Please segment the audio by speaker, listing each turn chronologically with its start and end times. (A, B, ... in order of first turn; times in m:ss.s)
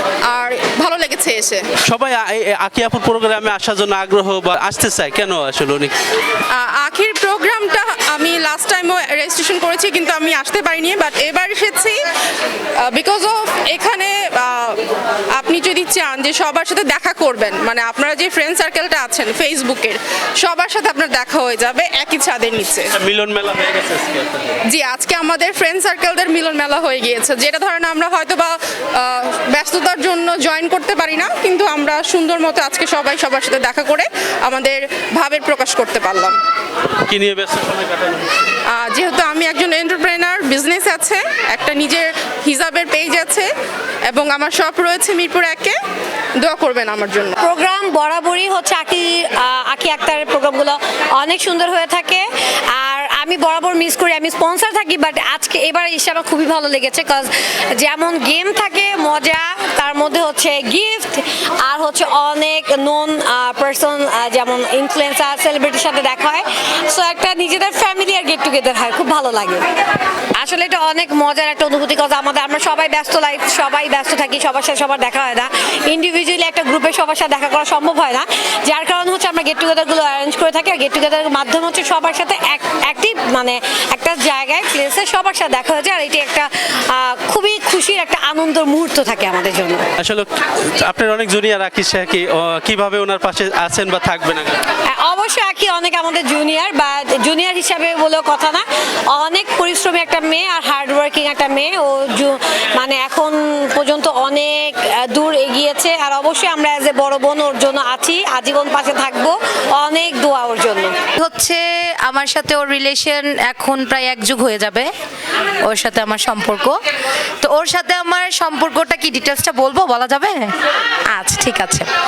0:00.3-0:01.6 A
0:01.9-0:05.9 B
0:06.5-0:12.0 A
0:12.8-0:14.8 A
0:15.4-0:22.9 A
0:23.0-0:24.4 B
0:24.7-0:36.3 A
0:37.1-0:38.4 B
0:38.7-0:43.5 A
0:44.1-0:45.8 A
0:46.4-0:47.4 A
0:47.4-1:09.7 C
1:10.4-1:29.9 C
1:30.0-1:34.6 B
1:34.9-1:51.0 C
1:51.2-1:54.9 D
1:55.6-1:56.8 D
1:57.4-2:00.5 D
2:01.1-2:01.9 D